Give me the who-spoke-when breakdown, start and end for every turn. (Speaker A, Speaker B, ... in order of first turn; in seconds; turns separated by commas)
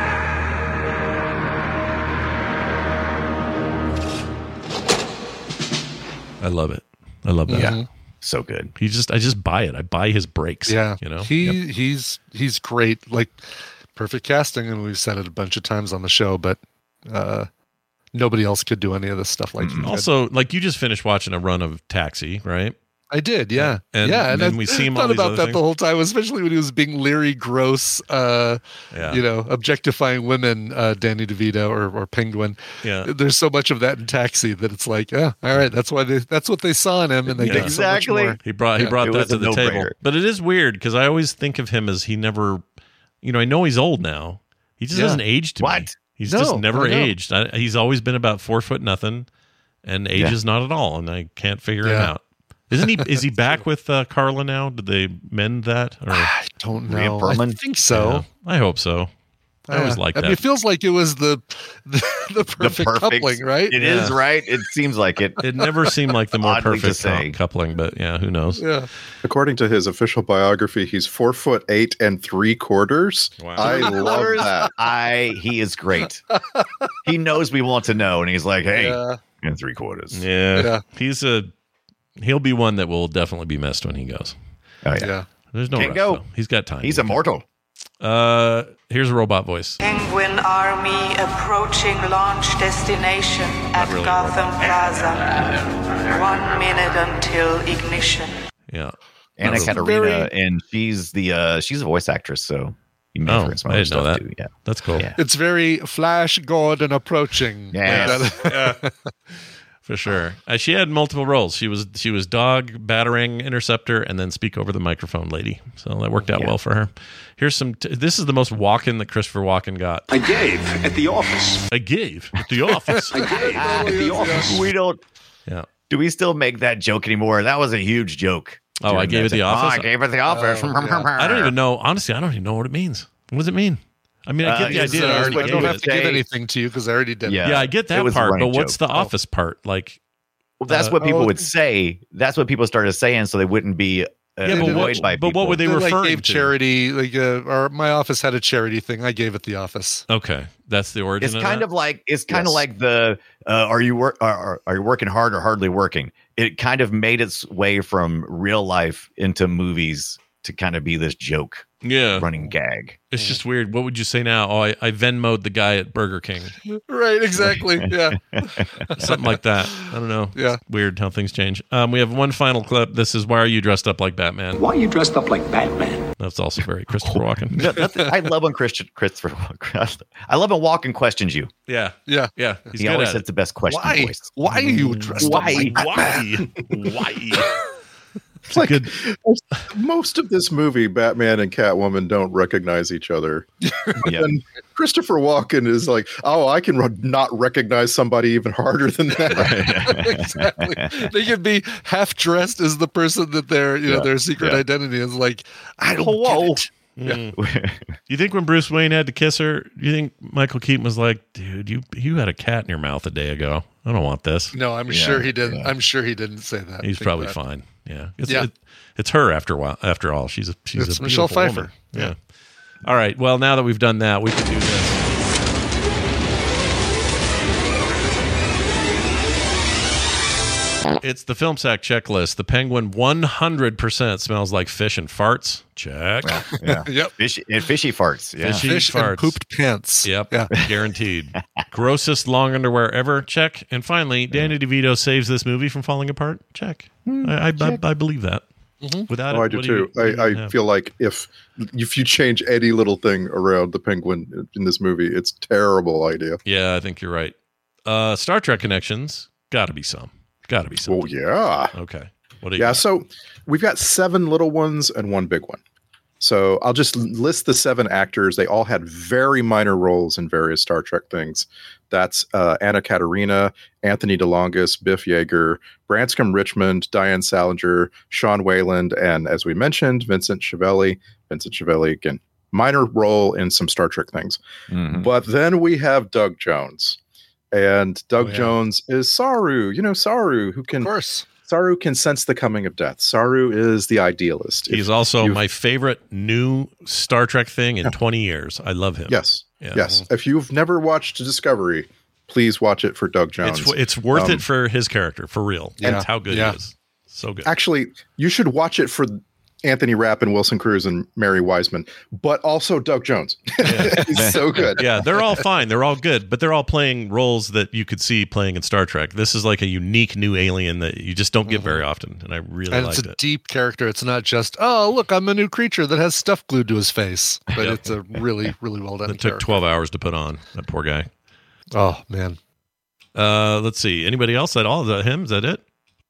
Speaker A: 6.4-7.8, Speaker B: 7.5-7.9, Speaker C: 7.5-8.7, Speaker A: 8.8-11.6, Speaker B: 10.7-13.4, Speaker B: 13.9-17.5, Speaker B: 18.1-20.1, Speaker C: 19.6-19.9, Speaker A: 19.8-22.7, Speaker B: 23.1-39.0, Speaker A: 23.5-25.6, Speaker A: 28.9-29.2, Speaker A: 32.8-33.1, Speaker C: 37.3-38.4, Speaker A: 37.5-37.8, Speaker A: 38.4-42.6, Speaker C: 39.0-39.9, Speaker A: 43.2-49.3, Speaker B: 44.9-45.2, Speaker C: 45.6-45.9, Speaker B: 46.3-47.1, Speaker A: 49.8-56.3, Speaker B: 51.8-52.1, Speaker B: 52.8-53.5, Speaker B: 56.1-58.2, Speaker C: 56.9-57.6, Speaker A: 57.9-59.1, Speaker B: 59.7-63.8, Speaker A: 59.7-60.4, Speaker C: 62.6-65.4, Speaker A: 63.8-64.2, Speaker A: 65.4-68.7, Speaker C: 66.4-67.3, Speaker B: 68.6-68.9, Speaker D: 69.2-74.7, Speaker A: 73.4-73.8, Speaker C: 73.6-76.2, Speaker B: 73.7-74.4, Speaker B: 76.3-76.9, Speaker C: 77.0-80.2, Speaker B: 78.7-79.2, Speaker A: 80.1-81.5, Speaker B: 80.5-80.8, Speaker A: 82.2-84.3, Speaker C: 84.8-85.1, Speaker B: 85.0-85.3, Speaker A: 85.5-87.2, Speaker C: 85.8-86.2, Speaker C: 86.8-87.4, Speaker A: 88.0-89.8, Speaker E: 89.8-95.4, Speaker A: 93.7-95.0, Speaker E: 96.0-98.3, Speaker A: 98.7-99.8, Speaker C: 99.4-105.2, Speaker B: 99.4-100.3, Speaker A: 103.2-105.0, Speaker B: 105.2-108.9, Speaker C: 107.7-108.3, Speaker A: 107.8-108.8, Speaker A: 109.8-120.1, Speaker F: 120.1-121.4, Speaker A: 121.7-123.2, Speaker B: 122.9-124.6, Speaker F: 123.1-124.1, Speaker C: 123.4-125.0, Speaker C: 125.9-131.5, Speaker A: 128.8-129.9, Speaker B: 130.3-131.1, Speaker A: 131.2-135.8, Speaker C: 134.4-136.2, Speaker B: 134.6-137.4, Speaker C: 137.2-138.8, Speaker A: 137.4-140.0, Speaker C: 140.6-145.6, Speaker A: 140.7-140.9, Speaker B: 141.0-141.4, Speaker A: 144.4-146.5, Speaker B: 144.4-145.0, Speaker B: 145.6-150.0, Speaker A: 150.1-151.7, Speaker C: 151.2-163.0, Speaker A: 161.8-162.3, Speaker A: 163.1-166.6, Speaker B: 166.7-170.6, Speaker C: 167.4-169.1, Speaker A: 169.0-174.6, Speaker F: 174.8-175.2, Speaker A: 176.2-177.8, Speaker C: 177.1-181.5, Speaker A: 181.7-183.2, Speaker C: 182.8-184.3, Speaker B: 183.7-186.2, Speaker A: 184.6-187.5, Speaker C: 185.2-185.9, Speaker D: 188.5-193.5, Speaker A: 188.5-188.9, Speaker B: 193.6-194.1, Speaker D: 194.0-199.8, Speaker C: 194.0-194.3, Speaker C: 199.3-201.1, Speaker B: 199.5-206.7, Speaker C: 203.9-204.6, Speaker C: 205.9-207.9, Speaker A: 207.0-207.3, Speaker A: 208.1-214.5, Speaker B: 214.5-217.3, Speaker C: 214.9-215.7, Speaker A: 216.8-222.2, Speaker B: 220.8-222.1, Speaker A: 222.8-225.1, Speaker A: 231.0-236.4, Speaker C: 236.2-238.7, Speaker B: 236.7-237.1, Speaker A: 238.4-239.4, Speaker B: 238.6-240.5, Speaker A: 240.0-248.4, Speaker C: 247.0-247.8, Speaker B: 248.8-249.1, Speaker A: 249.1-250.5, Speaker D: 249.3-256.4, Speaker A: 256.4-257.3, Speaker A: 257.9-261.1, Speaker D: 260.8-261.7, Speaker A: 261.7-262.8, Speaker D: 262.6-265.6, Speaker D: 266.2-284.4, Speaker C: 284.7-285.1, Speaker D: 284.9-287.0, Speaker D: 287.5-290.9, Speaker B: 288.2-288.5, Speaker B: 290.8-291.2, Speaker D: 291.4-295.4, Speaker A: 294.7-299.8, Speaker D: 299.1-304.4, Speaker A: 303.4-307.5, Speaker B: 305.8-306.6, Speaker D: 307.4-315.0, Speaker A: 313.6-314.1, Speaker C: 314.1-314.4, Speaker A: 314.7-323.2, Speaker B: 321.4-321.8, Speaker B: 322.7-329.6, Speaker A: 327.6-327.8, Speaker A: 329.1-331.1, Speaker B: 331.7-332.4, Speaker A: 333.1-335.6